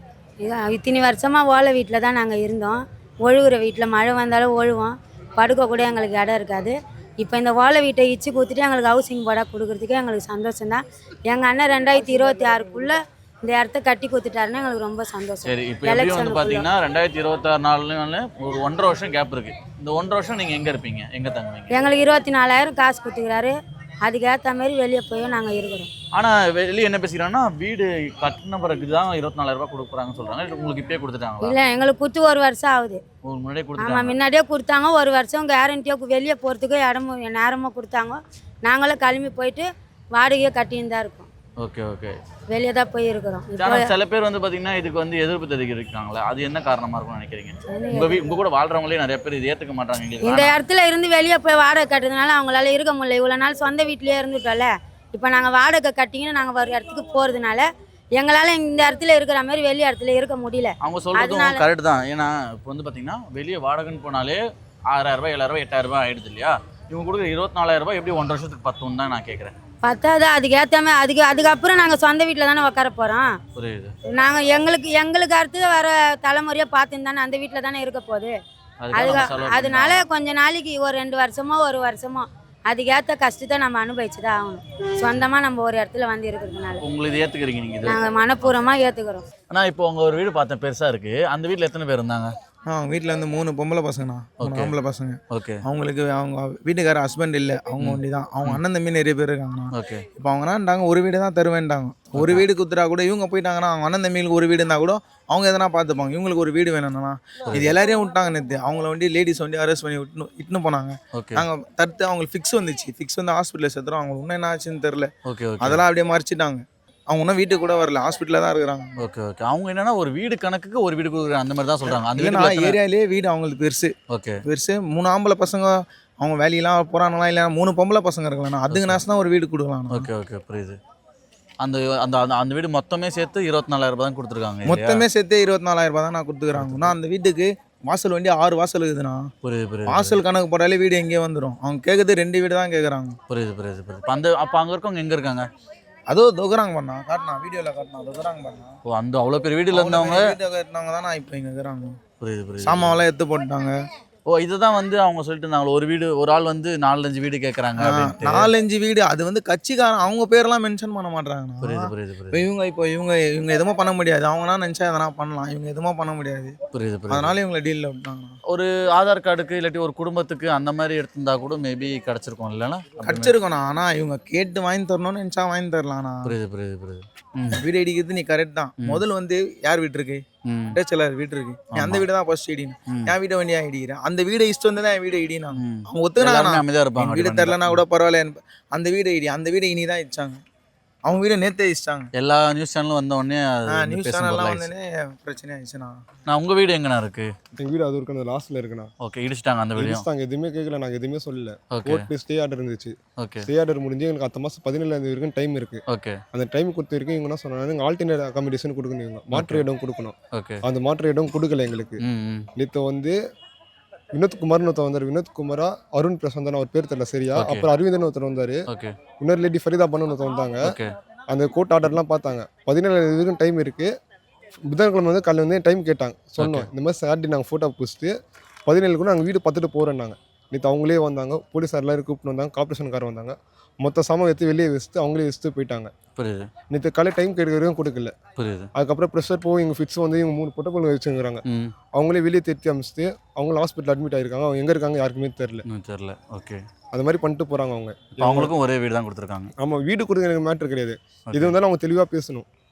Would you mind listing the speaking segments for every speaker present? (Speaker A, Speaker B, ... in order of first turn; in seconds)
Speaker A: 0.4-16.7, 21.7-25.9, 31.4-33.0, 33.8-41.3, 42.5-44.0, 47.7-48.2, 50.2-61.6, 69.8-73.4, 74.1-78.4, 78.9-86.8, 87.8-89.2
Speaker B: 15.4-21.9, 26.1-31.6, 33.2-34.2, 41.6-42.2, 43.6-50.6, 60.8-69.5, 73.6-74.0, 78.8-80.1, 86.8-88.6, 89.5-92.3, 94.4-94.7, 95.3-95.6, 97.8-98.6, 99.7-100.0, 102.2-102.5, 107.5-107.8, 111.1-111.5, 115.2-115.8, 119.0-122.8, 124.1-124.4, 128.7-129.0, 129.9-130.8, 131.6-135.0, 136.5-136.9, 139.4-140.2, 143.3-145.5, 148.8-150.3, 152.2-153.0, 154.3-158.5, 161.6-162.5, 166.7-167.3, 168.5-173.3, 176.2-177.6, 180.5-180.8, 181.7-182.1, 185.6-187.8, 192.2-194.7, 196.3-197.3, 199.0-200.1, 201.7-202.1, 203.2-203.5, 205.9-206.2, 209.3-209.6, 210.3-210.6, 212.0-212.5, 217.3-217.7, 218.7-219.0, 220.6-220.9, 226.4-226.7, 236.2-236.5, 238.4-238.7, 241.5-241.8, 245.7-246.6, 248.2-249.5, 251.3-251.6
Speaker C: 92.7-115.1, 115.6-119.0, 122.0-123.9, 124.5-130.1, 134.7-139.3, 139.9-143.2, 146.1-148.8, 149.7-152.0, 152.6-153.7, 157.8-166.6, 167.1-168.4, 173.0-176.3, 177.6-190.4, 191.1-192.1, 193.7-196.0
Speaker D: 197.6-198.9, 199.8-205.8, 206.3-212.0, 212.6-213.2, 214.1-218.6, 219.2-220.8, 221.3-223.9, 224.7-228.1, 228.7-235.9, 236.7-238.2, 238.8-241.4, 241.9-245.6, 246.9-248.5, 249.6-252.5